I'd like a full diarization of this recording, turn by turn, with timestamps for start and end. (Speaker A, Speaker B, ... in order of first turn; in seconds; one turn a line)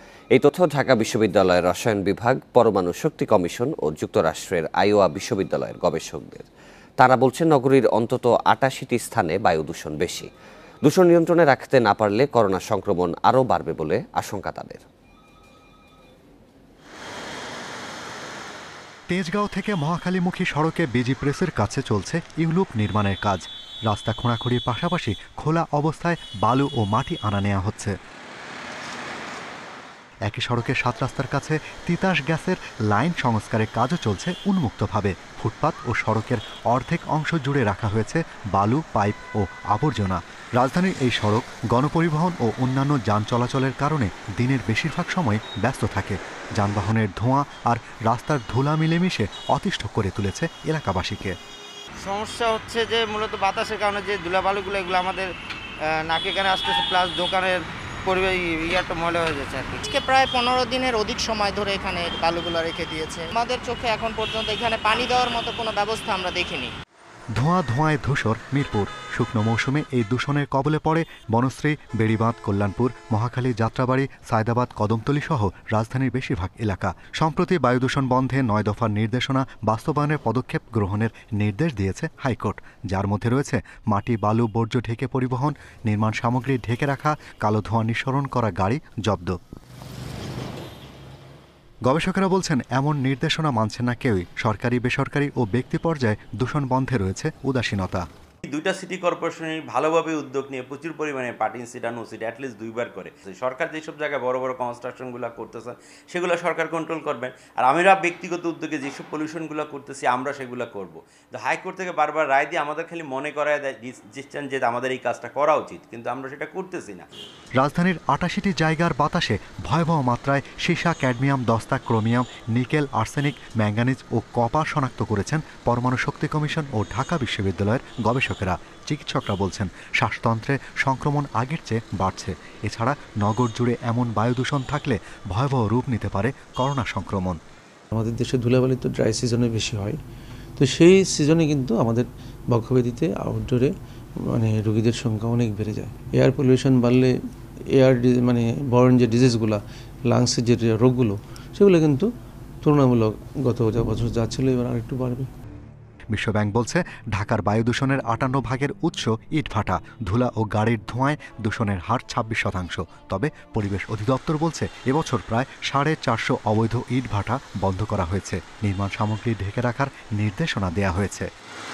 Speaker A: 0.3-6.5
Speaker A: 7.0-10.3
Speaker A: 10.8-14.8
Speaker B: 19.1-27.9
Speaker B: 30.3-51.3
Speaker C: 52.0-55.3
Speaker C: 55.9-59.8
Speaker D: 59.9-66.7
Speaker B: 67.4-89.3
Speaker B: 91.9-98.0
Speaker E: 98.5-117.1
Speaker B: 117.6-137.4
Speaker F: 137.9-140.0
Speaker F: 140.6-143.7
Speaker F: 144.3-147.1
Speaker F: 147.7-152.1
Speaker F: 152.6-155.3
Speaker B: 156.1-171.3